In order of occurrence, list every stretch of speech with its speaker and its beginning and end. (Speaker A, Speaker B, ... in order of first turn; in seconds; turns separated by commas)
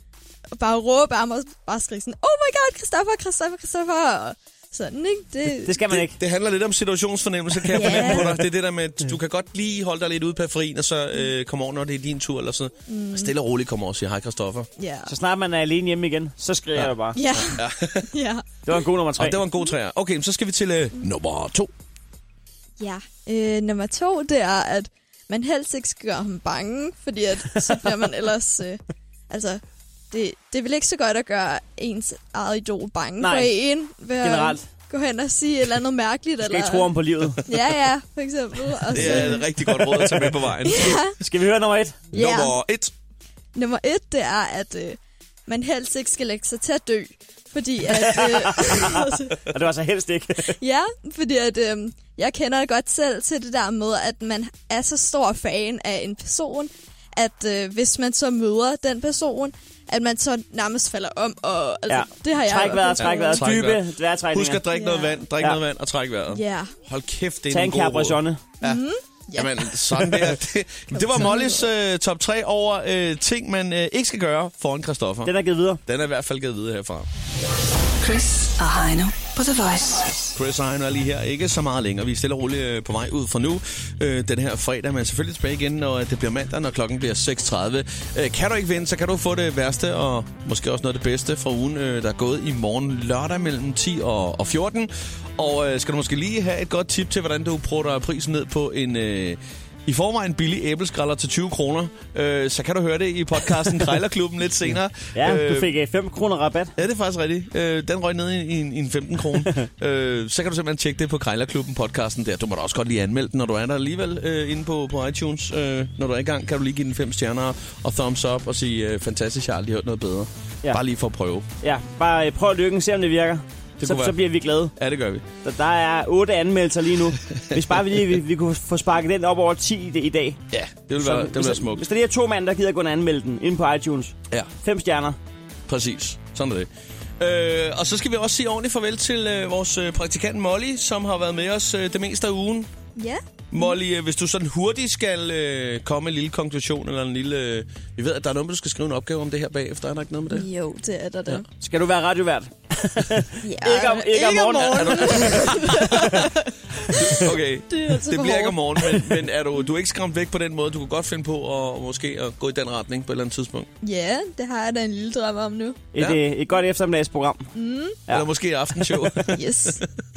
Speaker A: 0.5-5.8, Speaker B: 5.6-6.2, Speaker C: 5.9-14.7, Speaker A: 7.7-8.4, Speaker A: 12.9-13.3, Speaker A: 14.8-15.1, Speaker B: 15.1-17.2, Speaker C: 16.8-18.1, Speaker A: 17.1-18.4, Speaker B: 18.6-19.4, Speaker C: 19.2-21.7, Speaker A: 22.8-36.9, Speaker B: 33.2-33.5, Speaker B: 34.2-34.6, Speaker B: 36.4-37.4, Speaker A: 37.5-39.9, Speaker C: 38.9-41.1, Speaker B: 38.9-39.4, Speaker A: 40.6-41.1, Speaker B: 41.2-42.0, Speaker A: 42.1-42.6, Speaker C: 42.1-42.9, Speaker A: 43.5-49.4, Speaker B: 47.9-50.6, Speaker A: 50.6-63.5, Speaker B: 61.9-64.6, Speaker C: 63.0-68.8, Speaker A: 64.7-65.3, Speaker A: 66.3-66.7, Speaker B: 67.5-68.4, Speaker A: 68.6-70.3, Speaker C: 69.3-75.3, Speaker A: 70.9-71.7, Speaker B: 75.2-75.8, Speaker C: 75.8-77.1, Speaker D: 78.0-80.2, Speaker C: 80.3-105.7, Speaker B: 105.1-106.7, Speaker C: 106.8-121.5, Speaker B: 121.6-124.7, Speaker C: 123.8-124.2, Speaker C: 124.7-125.2, Speaker B: 125.4-130.4, Speaker C: 127.3-127.8, Speaker C: 130.5-131.8, Speaker B: 131.0-135.2, Speaker C: 135.7-142.7, Speaker A: 142.9-143.8, Speaker C: 143.5-150.5, Speaker A: 150.3-151.4, Speaker B: 151.6-156.1, Speaker A: 153.4-159.2, Speaker C: 154.8-156.2, Speaker C: 156.9-163.7, Speaker A: 163.8-165.8, Speaker B: 165.9-167.5, Speaker A: 167.6-168.0, Speaker C: 168.1-169.9, Speaker A: 169.2-169.8